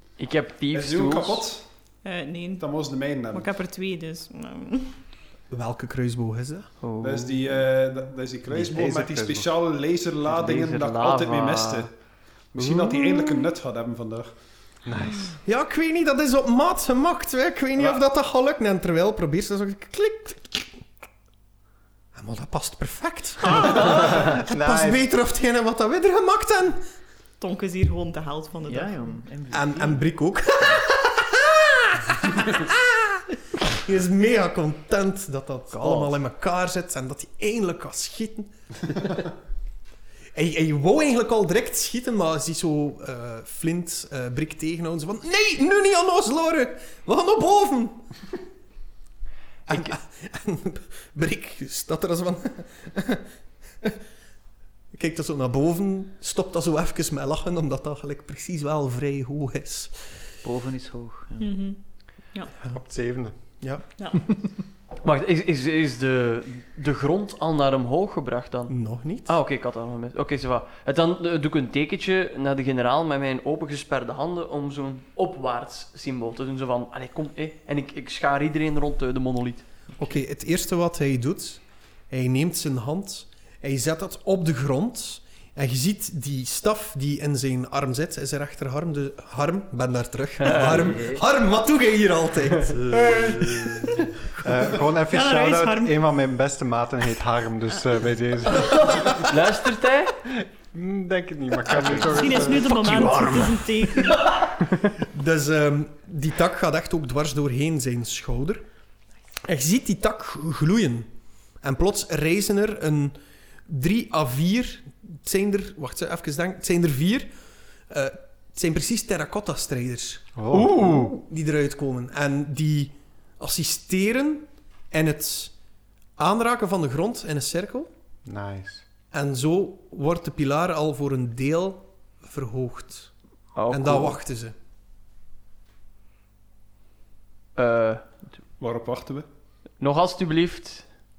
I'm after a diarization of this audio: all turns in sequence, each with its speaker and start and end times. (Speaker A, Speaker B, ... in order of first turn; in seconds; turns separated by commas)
Speaker A: 0.2-1.5, Speaker B: 0.7-1.6, Speaker C: 2.0-2.7, Speaker B: 2.6-3.5, Speaker C: 3.3-5.0, Speaker D: 5.5-6.7, Speaker A: 6.8-7.5, Speaker B: 7.0-11.9, Speaker E: 8.5-9.5, Speaker A: 10.3-11.9, Speaker B: 12.5-14.3, Speaker E: 14.8-15.4, Speaker D: 15.4-20.7, Speaker D: 22.1-26.8, Speaker E: 23.7-25.0, Speaker C: 27.4-29.2, Speaker F: 28.7-30.0, Speaker D: 29.5-39.2, Speaker A: 35.7-36.1, Speaker D: 40.3-48.1, Speaker D: 49.7-53.3, Speaker D: 54.9-60.0, Speaker F: 60.4-61.5, Speaker C: 61.4-61.8, Speaker E: 62.7-63.4, Speaker A: 65.0-68.8, Speaker D: 68.7-69.3, Speaker A: 69.3-79.7, Speaker D: 80.0-93.2, Speaker F: 90.5-91.2, Speaker E: 94.4-99.1, Speaker C: 95.1-96.0, Speaker A: 99.0-100.2, Speaker E: 100.7-102.7, Speaker C: 102.0-104.3, Speaker A: 102.8-103.5, Speaker D: 105.0-108.7, Speaker D: 109.4-111.1, Speaker D: 111.6-117.3, Speaker D: 117.9-125.5, Speaker E: 120.4-120.8, Speaker A: 120.5-121.2, Speaker D: 126.2-127.9, Speaker E: 128.3-128.8, Speaker D: 129.1-133.1, Speaker A: 133.6-134.2, Speaker D: 133.7-134.6, Speaker A: 137.6-138.0, Speaker B: 138.6-139.3, Speaker A: 139.8-140.8